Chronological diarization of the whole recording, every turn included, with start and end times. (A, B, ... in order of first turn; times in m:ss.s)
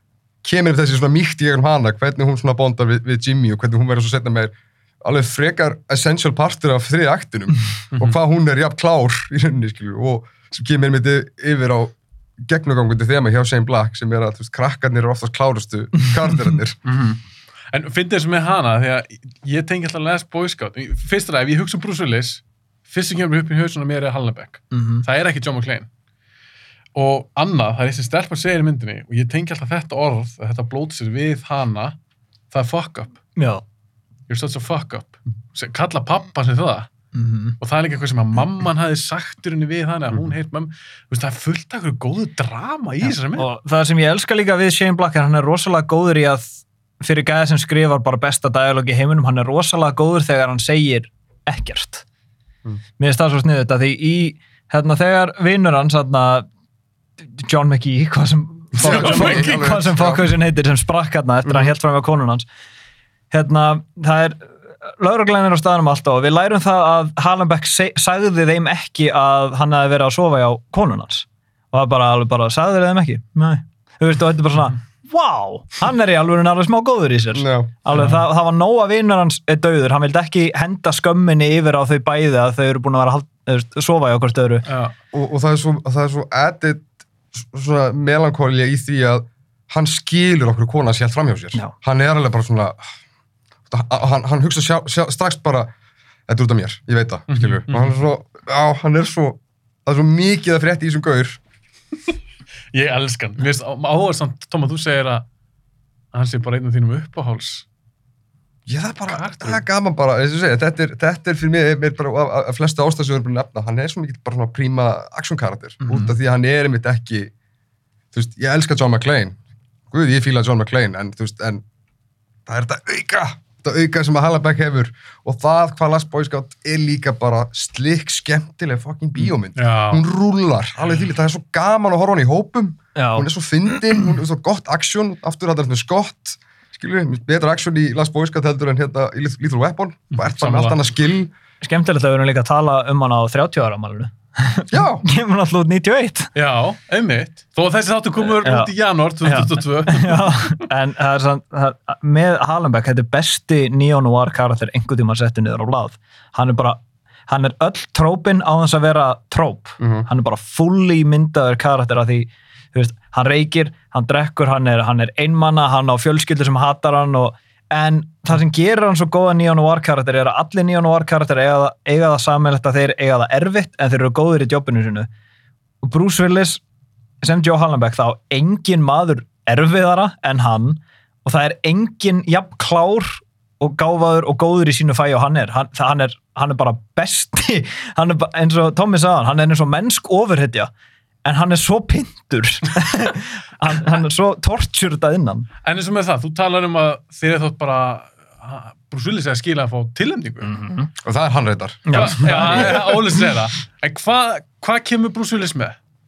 0:00.4-0:16.8 A
0:16.8-0:25.9 B
0:24.7-0:25.0 C
0:27.0-0:32.0 B
0:32.5-0:33.2 B
0:33.4-0:33.6 C
0:34.3-0:36.9 B
0:37.1-0:37.6 C
0:37.6-0:43.5 B
0:43.0-0:52.0 C
0:53.0-0:56.5 C
0:57.2-1:02.5 C
0:58.8-1:00.3 A
0:58.8-0:59.6 B
1:01.5-1:01.7 A
1:03.3-1:24.7 C
1:17.3-1:17.7 A
1:17.9-1:18.2 B
1:24.7-1:24.9 B
1:25.1-1:26.8 A
1:27.4-1:32.8 A
1:33.7-1:35.7 A
1:36.3-1:41.4 A
1:37.3-1:38.0 B
1:42.7-1:45.2 B
1:46.1-1:47.7 B
1:48.7-1:57.3 A
1:49.1-1:49.6 B
1:55.8-1:56.1 B
1:58.1-1:59.4 A
1:59.9-2:01.6 A
2:02.5-2:21.3 A
2:09.6-2:10.0 B
2:13.0-2:13.3 C
2:20.1-2:20.8 B
2:21.6-2:26.3 C
2:24.7-2:25.0 A
2:26.4-2:30.6 B
2:28.3-2:28.7 C
2:29.2-2:55.1 C
2:39.8-2:40.1 A
2:55.8-2:56.6 C
2:57.2-3:10.7 C
3:11.2-3:15.5 C
3:15.6-3:20.5 B
3:20.4-3:20.9 C
3:21.0-3:22.8 A
3:21.9-3:23.3 C
3:21.9-3:25.8 B